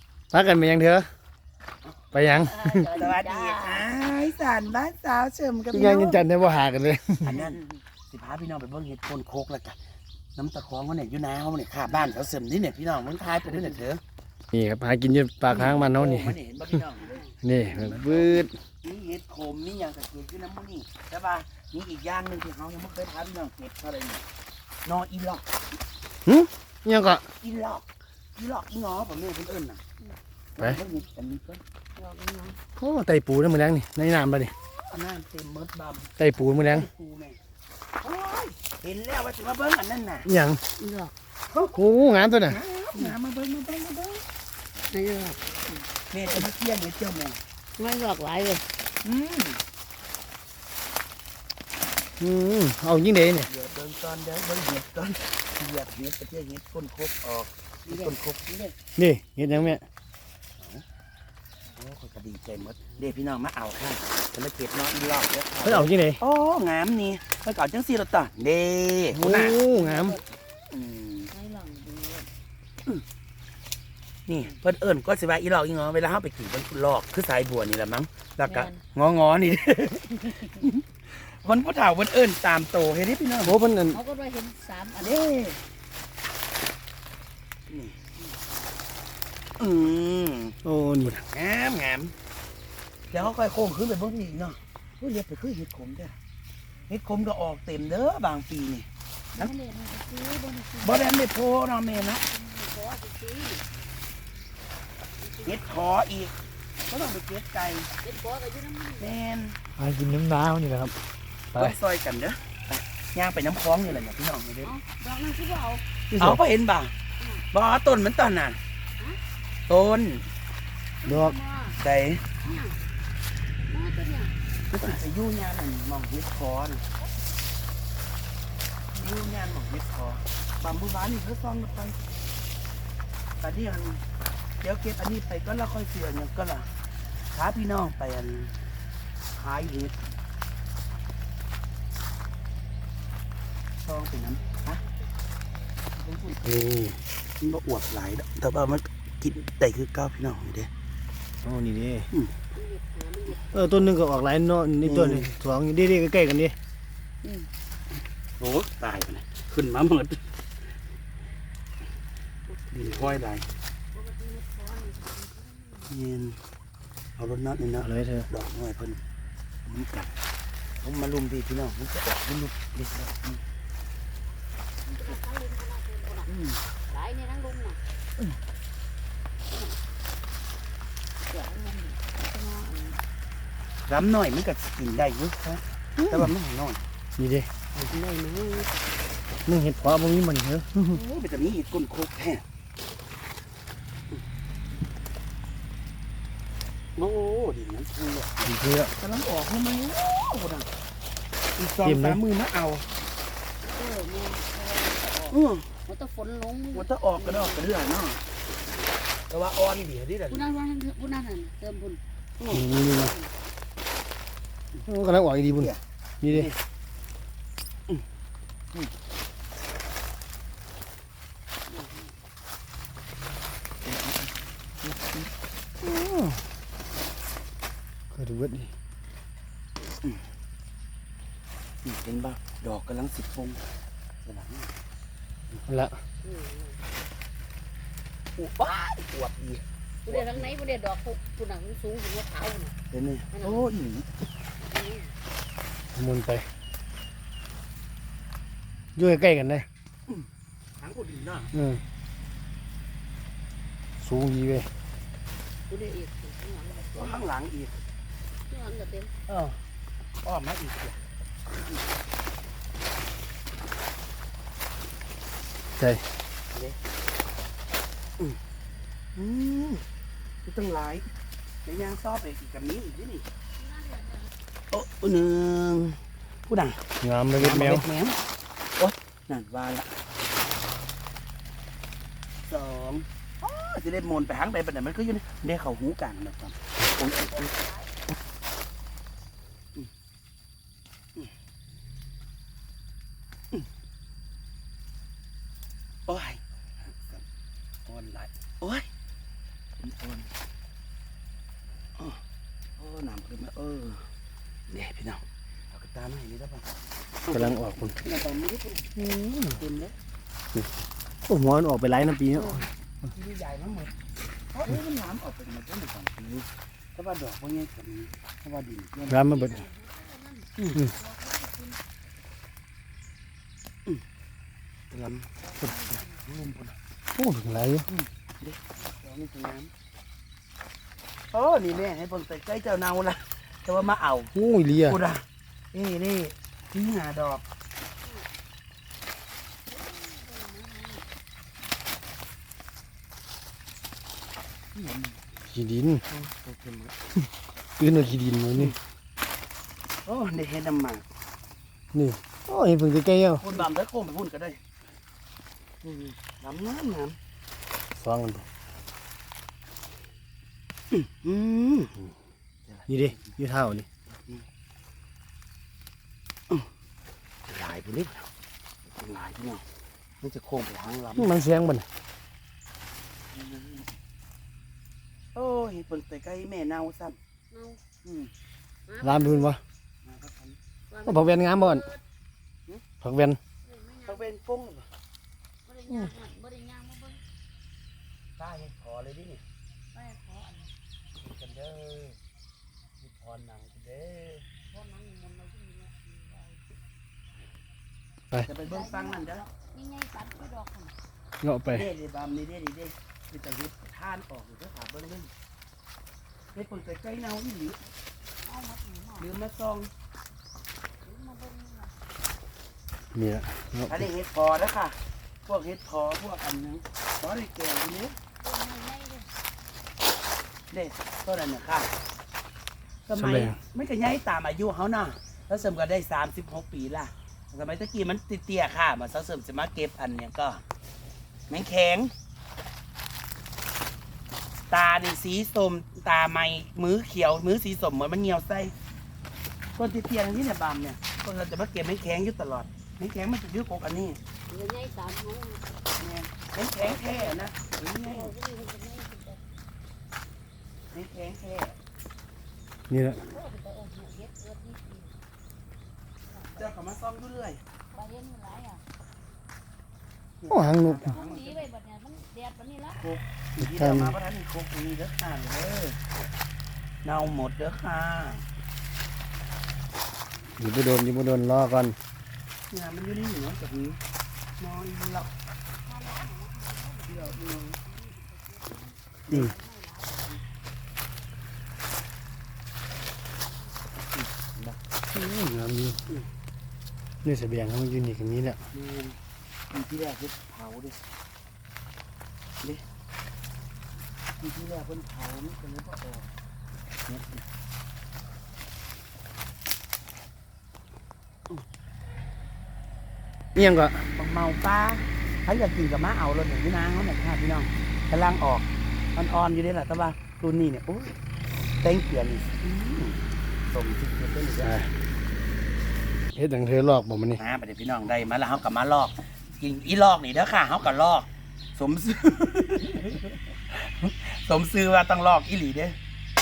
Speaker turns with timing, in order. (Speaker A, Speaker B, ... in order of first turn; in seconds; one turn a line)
Speaker A: 0.3-1.1
Speaker A: 2.1-2.9
Speaker B: 2.3-3.9
Speaker C: 3.0-6.3
Speaker A: 5.7-7.3
Speaker C: 7.2-9.8
Speaker B: 7.3-7.8
Speaker C: 10.4-14.0
Speaker A: 14.5-16.4
Speaker C: 15.5-24.3
Speaker B: 17.0-17.3
Speaker A: 17.4-18.6
Speaker C: 24.9-25.4
Speaker A: 26.3-27.2
Speaker C: 27.4-27.9
Speaker C: 28.4-29.8
Speaker C: 30.6-31.6
Speaker B: 32.0-32.6
Speaker A: 32.8-34.5
Speaker C: 34.8-37.4
Speaker A: 36.2-36.9
Speaker C: 38.0-40.3
Speaker A: 40.2-40.6
Speaker B: 40.8-41.1
Speaker C: 41.5-41.8
Speaker A: 41.8-42.6
Speaker C: 42.4-44.2
Speaker B: 44.9-45.7
Speaker C: 46.1-47.4
Speaker B: 47.8-48.6
Speaker C: 49.0-49.6
Speaker A: 52.2-53.5
Speaker C: 53.5-58.4
Speaker B: 57.9-58.8
Speaker A: 59.0-59.8
Speaker C: 61.8-69.6
Speaker A: 65.6-66.2
Speaker A: 69.1-70.2
Speaker B: 69.7-70.4
Speaker C: 70.7-71.3
Speaker B: 71.3-72.3
Speaker C: 74.3-83.6
Speaker B: 78.5-78.8
Speaker A: 83.4-84.0
Speaker B: 83.9-85.2
Speaker C: 85.0-85.6
Speaker C: 87.7-88.0
Speaker C: 89.6-92.1
Speaker A: 90.6-91.2
Speaker C: 93.1-96.2
Speaker C: 96.9-99.5
Speaker B: 99.4-101.2
Speaker C: 100.8-102.2
Speaker B: 101.9-103.6
Speaker B: 105.2-105.7
Speaker C: 105.5-106.3
Speaker C: 106.9-107.9
Speaker B: 108.0-109.2
Speaker C: 109.0-109.6
Speaker A: 109.8-111.0
Speaker C: 111.5-114.7
Speaker B: 114.6-115.8
Speaker A: 116.1-116.4
Speaker C: 116.2-116.9
Speaker B: 117.2-117.5
Speaker C: 117.5-118.6
Speaker C: 119.7-120.2
Speaker B: 121.0-121.8
Speaker A: 121.0-121.4
Speaker C: 121.8-122.2
Speaker B: 122.4-122.8
Speaker B: 123.6-124.4
Speaker C: 124.7-126.8
Speaker C: 128.9-132.0
Speaker C: 133.4-134.0
Speaker C: 134.6-136.7
Speaker C: 137.3-138.5
Speaker C: 139.3-140.2
Speaker C: 143.8-144.8
Speaker B: 144.5-144.9
Speaker C: 146.0-146.4
Speaker A: 146.4-147.0
Speaker C: 147.4-150.7
Speaker A: 151.4-152.1
Speaker B: 152.5-153.9
Speaker A: 153.4-156.6
Speaker C: 154.8-155.3
Speaker B: 157.2-157.5
Speaker C: 158.4-160.2
Speaker B: 162.5-163.2
Speaker C: 162.7-163.5
Speaker B: 163.9-165.9
Speaker C: 165.9-166.4
Speaker C: 167.2-169.0
Speaker A: 167.8-168.3
Speaker C: 169.7-170.2
Speaker C: 170.8-173.4
Speaker C: 174.9-175.2
Speaker B: 174.9-176.3
Speaker C: 176.3-176.6
Speaker B: 176.9-177.8
Speaker B: 179.5-179.8
Speaker B: 181.2-183.0
Speaker C: 183.9-186.8
Speaker A: 186.0-186.3
Speaker A: 187.2-187.5
Speaker C: 187.8-188.7
Speaker A: 189.5-191.0
Speaker C: 190.8-192.4
Speaker C: 197.0-200.7
Speaker A: 198.4-198.9
Speaker C: 201.6-202.9
Speaker A: 201.8-202.2
Speaker B: 203.7-207.7
Speaker C: 205.3-205.7
Speaker C: 206.7-208.2
Speaker C: 209.3-210.5
Speaker B: 210.3-212.0
Speaker B: 212.5-213.4
Speaker A: 212.5-213.1
Speaker A: 214.9-215.7
Speaker C: 215.5-216.6
Speaker A: 216.2-216.5
Speaker C: 223.8-224.3
Speaker C: 224.8-225.3
Speaker A: 225.8-226.4
Speaker A: 228.1-228.7
Speaker C: 231.8-233.7
Speaker C: 234.2-234.7
Speaker A: 235.7-236.0
Speaker B: 236.2-236.8
Speaker C: 238.4-240.5
Speaker B: 240.1-242.8
Speaker C: 242.9-244.1
Speaker B: 243.3-243.7
Speaker B: 244.6-245.2
Speaker A: 245.9-246.5
Speaker A: 249.0-249.7
Speaker C: 250.8-251.5
Speaker A: 251.5-251.8
Speaker A: 254.0-254.7
Speaker B: 255.7-257.3
Speaker C: 256.9-257.8
Speaker B: 258.5-259.1
Speaker C: 259.3-259.6
Speaker C: 260.2-261.0
Speaker A: 265.8-266.1
Speaker C: 269.2-269.8
Speaker C: 270.5-271.1
Speaker C: 271.6-273.3
Speaker B: 273.6-274.3
Speaker C: 274.7-278.2
Speaker A: 277.0-277.9
Speaker C: 278.8-279.9
Speaker C: 282.4-287.6
Speaker B: 287.3-287.7
Speaker C: 296.1-297.2
Speaker C: 297.9-298.9
Speaker C: 299.8-300.3
Speaker C: 302.8-304.0
Speaker C: 304.7-306.7
Speaker C: 307.3-309.9
Speaker A: 307.3-308.0
Speaker A: 311.3-312.6
Speaker C: 312.3-313.9
Speaker C: 314.5-319.3
Speaker A: 319.1-319.7
Speaker B: 319.2-321.8
Speaker C: 324.9-326.8
Speaker B: 325.4-326.2
Speaker A: 327.1-327.9
Speaker C: 327.9-329.7
Speaker C: 331.3-337.5
Speaker A: 334.4-335.0
Speaker B: 339.7-341.1
Speaker C: 344.8-345.2
Speaker A: 345.5-346.0
Speaker C: 346.1-347.0
Speaker A: 347.8-348.7
Speaker C: 350.1-351.1
Speaker A: 351.9-353.6
Speaker C: 353.4-354.6
Speaker C: 355.8-357.2
Speaker A: 358.0-358.5
Speaker C: 360.9-362.1
Speaker C: 362.7-363.3
Speaker A: 362.9-363.9
Speaker C: 367.5-368.3
Speaker C: 368.9-369.6
Speaker C: 370.2-371.4
Speaker A: 371.2-371.9
Speaker C: 373.3-373.9
Speaker C: 375.4-377.2
Speaker B: 377.5-377.8
Speaker C: 378.0-378.3
Speaker B: 378.9-379.6
Speaker A: 379.0-379.6
Speaker C: 380.0-380.6
Speaker B: 380.9-382.0
Speaker A: 381.1-381.8
Speaker A: 383.0-383.4
Speaker B: 383.6-384.3
Speaker C: 384.1-384.9
Speaker B: 385.7-387.2
Speaker C: 388.4-389.4
Speaker B: 389.9-390.7
Speaker C: 391.2-392.2
Speaker C: 393.0-394.4
Speaker B: 394.7-396.6
Speaker C: 398.4-399.4
Speaker B: 398.6-400.9
Speaker A: 401.4-401.9
Speaker C: 401.7-405.3
Speaker C: 406.6-407.8
Speaker B: 408.4-409.3
Speaker C: 409.2-409.9
Speaker B: 411.0-411.9
Speaker A: 413.1-414.0
Speaker C: 413.9-418.2
Speaker B: 418.4-419.3
Speaker C: 420.7-421.9
Speaker C: 423.1-430.6
Speaker A: 423.2-423.6
Speaker C: 431.5-432.1
Speaker C: 434.7-438.7
Speaker C: 439.8-444.2
Speaker B: 444.5-445.6
Speaker C: 446.0-448.3
Speaker B: 446.8-447.4
Speaker B: 448.0-449.4
Speaker C: 450.9-451.8
Speaker A: 452.9-453.2
Speaker B: 453.1-455.1
Speaker B: 456.3-456.7
Speaker C: 456.6-457.6
Speaker B: 457.9-458.8
Speaker C: 460.4-461.7
Speaker A: 460.5-461.1
Speaker B: 461.1-463.0
Speaker C: 463.0-466.0
Speaker A: 463.6-464.1
Speaker C: 467.0-468.4
Speaker A: 470.6-472.0
Speaker C: 472.7-474.0
Speaker C: 474.6-475.3
Speaker B: 475.7-480.4
Speaker C: 477.1-477.8
Speaker C: 479.3-479.5
Speaker B: 483.4-483.8
Speaker C: 484.1-484.8
Speaker A: 485.1-486.0
Speaker A: 487.2-488.6
Speaker C: 488.7-489.2
Speaker C: 489.7-491.0
Speaker C: 494.4-496.3
Speaker C: 497.1-497.4
Speaker A: 503.6-504.1
Speaker C: 504.0-511.1
Speaker C: 511.8-514.8
Speaker A: 514.6-514.9
Speaker A: 516.3-517.4
Speaker C: 517.4-526.0